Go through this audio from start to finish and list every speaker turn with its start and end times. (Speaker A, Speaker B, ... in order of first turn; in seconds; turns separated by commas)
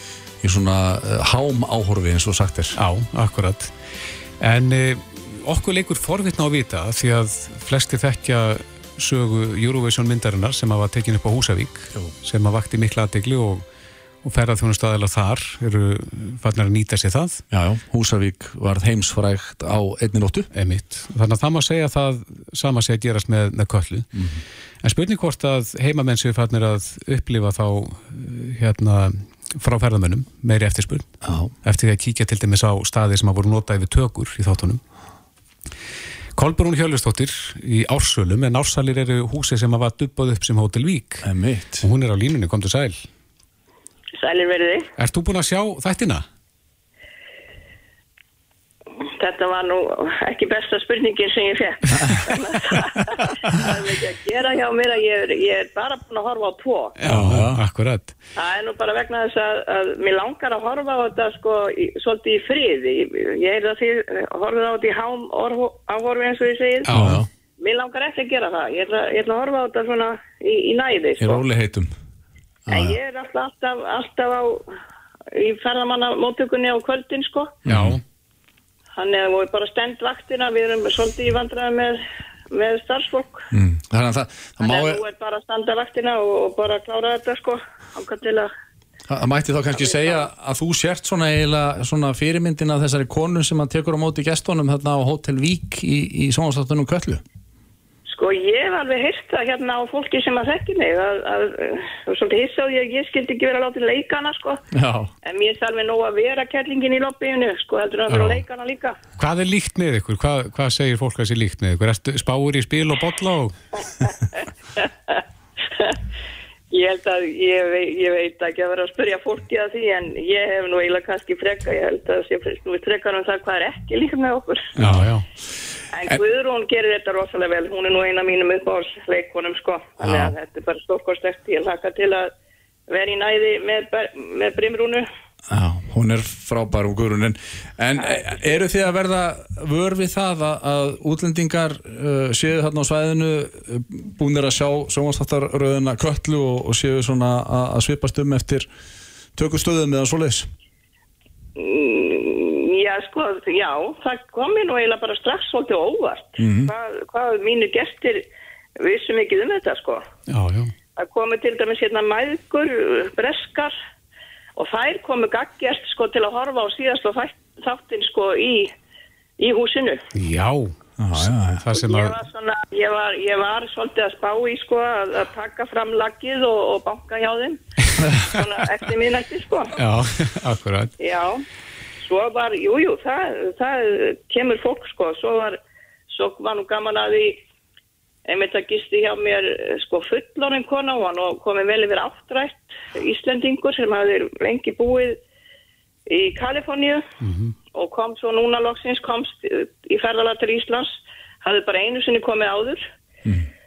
Speaker A: 0.4-2.8, Speaker B: 2.8-3.7, Speaker B: 4.4-13.6, Speaker B: 14.2-17.4, Speaker A: 17.5-20.5, Speaker B: 20.5-24.1, Speaker A: 24.1-24.4, Speaker B: 24.8-31.1, Speaker A: 31.2-31.5, Speaker B: 31.6-34.8, Speaker B: 36.4-41.3, Speaker A: 41.2-41.9, Speaker B: 41.8-43.0, Speaker C: 44.1-44.9, Speaker B: 45.0-46.2, Speaker C: 49.2-57.0, Speaker B: 57.0-58.1, Speaker A: 57.1-57.6, Speaker C: 58.4-67.0, Speaker B: 66.9-67.2, Speaker A: 66.9-67.3, Speaker C: 67.6-71.4, Speaker A: 71.2-71.9, Speaker A: 72.7-73.0, Speaker C: 72.7-74.7, Speaker C: 75.3-77.5, Speaker A: 77.7-78.0, Speaker B: 77.7-78.0, Speaker C: 79.0-82.0, Speaker C: 82.5-83.5, Speaker A: 83.5-85.0, Speaker C: 84.6-88.5, Speaker A: 89.1-97.2, Speaker C: 89.8-90.2, Speaker C: 98.0-104.6, Speaker A: 104.7-105.1, Speaker C: 105.2-109.0, Speaker B: 108.1-108.4, Speaker B: 109.2-113.6, Speaker C: 114.8-115.2, Speaker C: 116.7-124.7, Speaker A: 124.8-125.0, Speaker B: 124.8-125.2, Speaker C: 125.9-132.3, Speaker A: 130.0-130.3, Speaker C: 132.9-135.1, Speaker A: 135.5-148.7, Speaker C: 138.0-138.3, Speaker A: 149.3-150.5, Speaker C: 151.6-158.2, Speaker A: 156.4-156.7, Speaker C: 158.8-160.0, Speaker B: 160.3-160.7, Speaker C: 160.9-163.7, Speaker C: 164.6-168.7, Speaker C: 169.4-170.1, Speaker B: 170.1-172.1, Speaker A: 171.0-171.6, Speaker C: 171.7-177.6, Speaker C: 178.2-179.7, Speaker B: 179.8-180.9, Speaker C: 181.0-181.4, Speaker C: 182.0-187.4, Speaker C: 188.2-195.2, Speaker C: 196.1-197.1, Speaker B: 197.2-197.5, Speaker C: 197.7-202.8